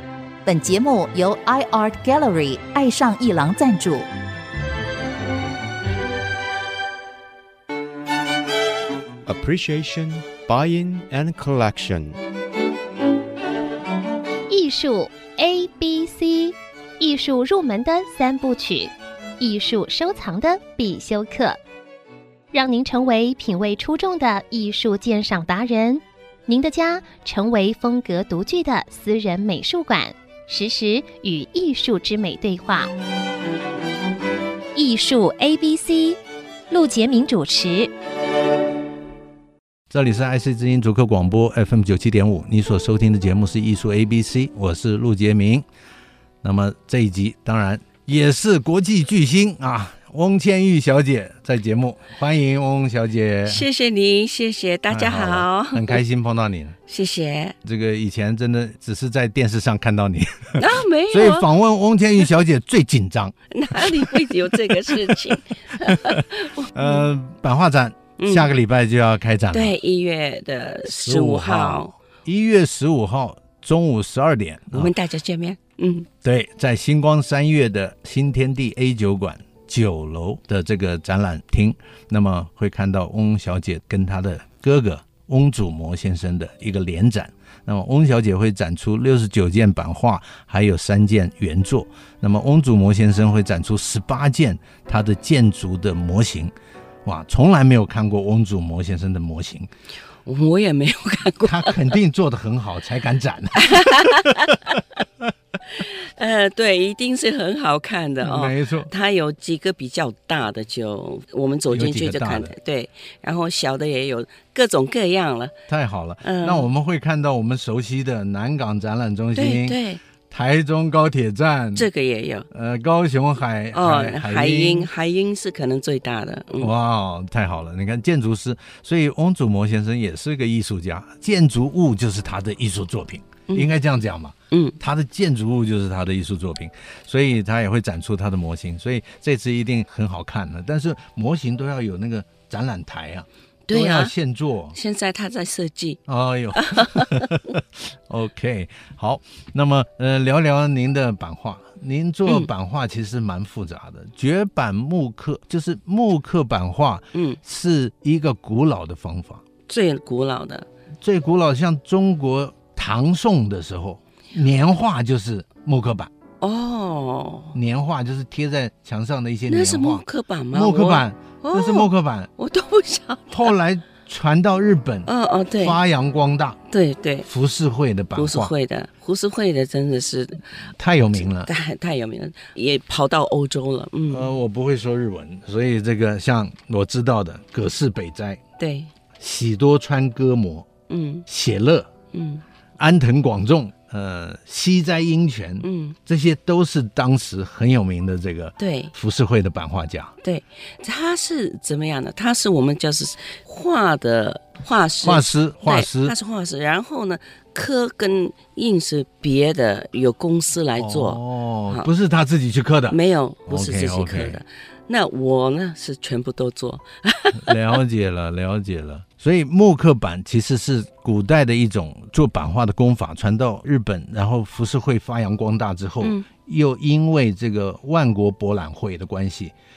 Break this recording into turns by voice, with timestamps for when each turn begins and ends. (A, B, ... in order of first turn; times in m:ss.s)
0:00.4-0:04.1 A
0:09.3-0:12.2 B
0:14.5-0:21.6 C
0:22.5-0:32.9 C
0:34.8-0:36.2 C
0:36.7-0:37.9 C
0:39.9-0:45.6 D
0:46.4-0:53.7 D
0:53.5-0:56.0 E
0:54.9-0:56.8 D
0:56.9-0:57.6 E
0:57.6-1:09.8 D
1:00.6-1:01.5 E
1:03.5-1:07.0 E
1:08.2-1:08.5 E
1:09.5-1:11.9 E
1:10.9-1:14.9 D
1:14.7-1:16.1 E
1:16.2-1:36.5 D
1:37.0-1:39.7 D
1:40.2-1:41.9 E
1:41.4-1:44.8 D
1:43.6-1:44.8 E
1:45.7-1:55.6 E
1:48.2-1:48.9 D
1:51.7-1:52.6 D
1:55.7-2:01.9 D
1:56.2-1:56.7 E
1:59.4-2:00.0 E
2:01.8-2:02.5 E
2:02.5-2:04.9 D
2:03.7-2:06.7 E
2:06.6-2:24.8 D
2:14.5-2:14.8 E
2:23.7-2:24.1 E
2:24.7-2:26.0 E
2:26.1-2:39.4 D
2:26.6-2:27.4 E
2:37.1-2:37.4 E
2:39.7-2:40.7 E
2:41.0-2:46.1 D
2:46.4-2:47.6 E
2:47.6-2:52.3 D
2:49.5-2:53.5 E
2:53.3-2:56.6 D
2:55.1-2:55.8 E
2:56.7-2:57.3 E
2:57.2-2:58.5 D
2:58.2-3:00.4 E
3:00.8-3:01.5 D
3:01.2-3:04.3 E
3:04.1-3:08.4 D
3:08.6-3:08.9 E
3:09.2-3:10.7 D
3:10.9-3:11.3 E
3:11.3-3:11.9 D
3:12.1-3:12.4 E
3:12.8-3:20.1 D
3:15.6-3:16.0 E
3:18.6-3:18.9 E
3:20.2-3:31.9 E
3:25.0-3:26.2 D
3:30.8-3:34.4 D
3:32.9-3:37.6 E
3:37.4-3:49.5 D